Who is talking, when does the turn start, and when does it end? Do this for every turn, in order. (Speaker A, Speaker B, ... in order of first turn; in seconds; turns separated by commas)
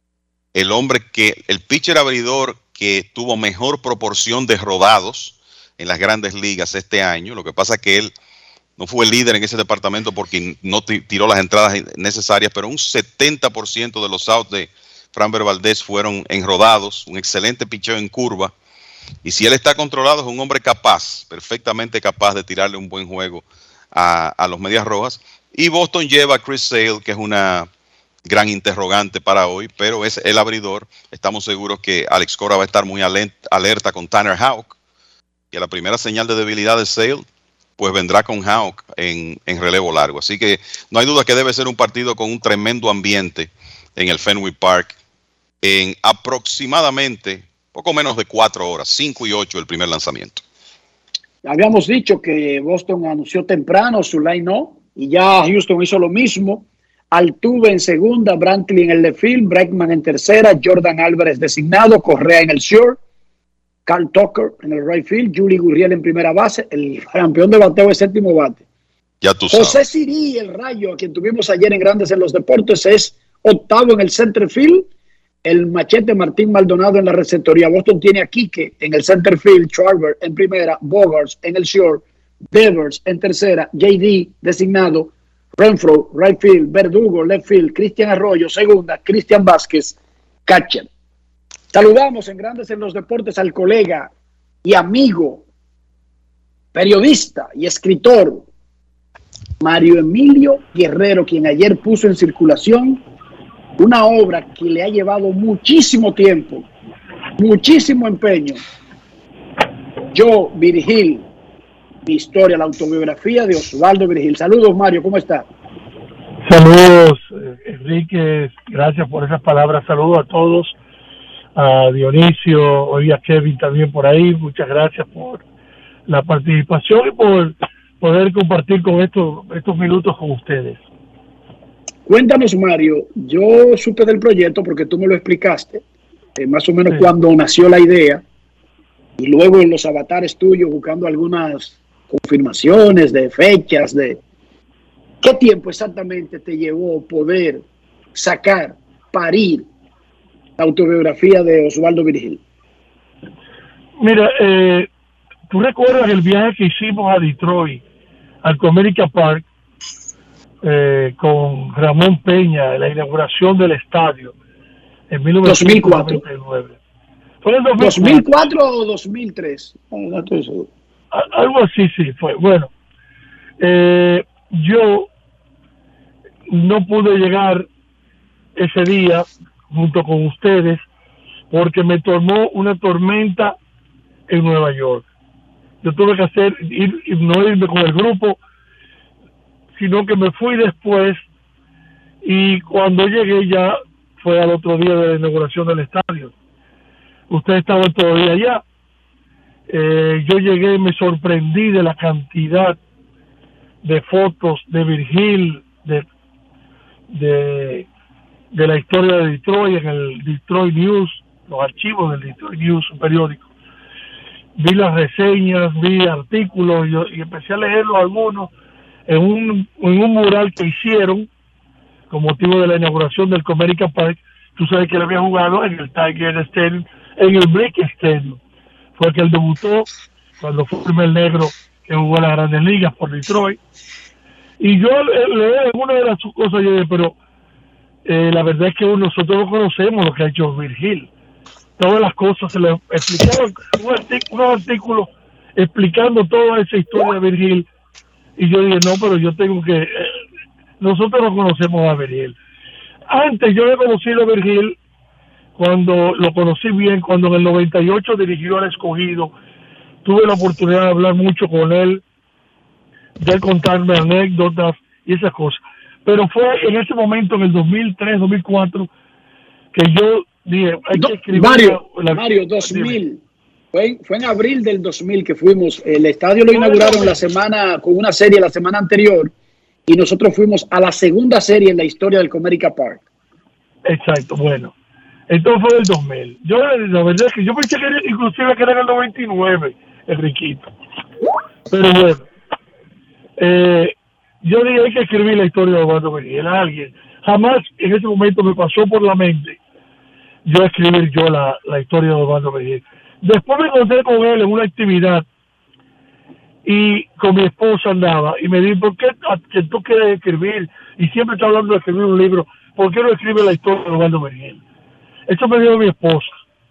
Speaker A: 0.6-8.1, Speaker A: 8.8-18.5, Speaker A: 19.2-27.7, Speaker A: 28.3-34.8, Speaker A: 35.5-37.3, Speaker A: 37.8-45.0, Speaker A: 45.6-50.4, Speaker B: 51.4-63.0, Speaker B: 63.9-68.6, Speaker A: 69.2-69.8, Speaker B: 69.5-74.9, Speaker B: 75.5-90.9, Speaker B: 91.7-94.1, Speaker B: 94.6-95.4, Speaker B: 96.7-98.5, Speaker B: 99.6-103.0, Speaker B: 103.8-106.7, Speaker B: 107.4-108.6, Speaker B: 110.1-111.3, Speaker B: 112.1-115.5, Speaker C: 116.5-120.7, Speaker C: 121.6-125.4, Speaker C: 126.1-130.8, Speaker B: 132.1-135.8, Speaker B: 136.4-138.2, Speaker B: 139.2-144.2, Speaker B: 145.2-149.7, Speaker B: 150.6-152.4, Speaker C: 154.0-154.9, Speaker C: 155.5-157.8, Speaker C: 158.4-159.4, Speaker C: 160.6-164.3, Speaker C: 165.1-166.8, Speaker B: 165.4-166.2, Speaker C: 167.4-168.3, Speaker B: 167.8-170.7, Speaker C: 171.1-172.7, Speaker C: 173.6-175.1, Speaker C: 176.5-177.7, Speaker C: 178.6-180.8, Speaker C: 181.5-183.6, Speaker C: 184.3-185.0, Speaker C: 185.8-188.4, Speaker C: 189.8-191.2, Speaker C: 192.2-196.3, Speaker C: 197.3-198.6, Speaker C: 199.7-202.8, Speaker C: 203.8-206.1, Speaker C: 207.1-207.9, Speaker C: 208.5-213.5, Speaker C: 214.6-218.5, Speaker C: 219.1-221.3, Speaker C: 222.1-228.4, Speaker C: 229.0-229.9, Speaker C: 230.4-233.6, Speaker C: 234.6-237.2, Speaker C: 238.1-241.1, Speaker C: 241.8-247.7, Speaker C: 248.4-250.1, Speaker C: 250.8-252.4, Speaker C: 253.1-254.8, Speaker C: 255.6-259.3, Speaker C: 260.1-262.0, Speaker C: 263.2-268.9, Speaker C: 269.7-273.0, Speaker B: 270.9-273.2, Speaker B: 273.7-279.3, Speaker C: 276.5-277.2, Speaker B: 279.9-283.0, Speaker C: 283.9-284.7, Speaker C: 285.3-290.6, Speaker C: 291.7-292.2, Speaker C: 293.4-299.6, Speaker C: 300.5-305.2, Speaker C: 306.7-314.6, Speaker C: 315.3-316.4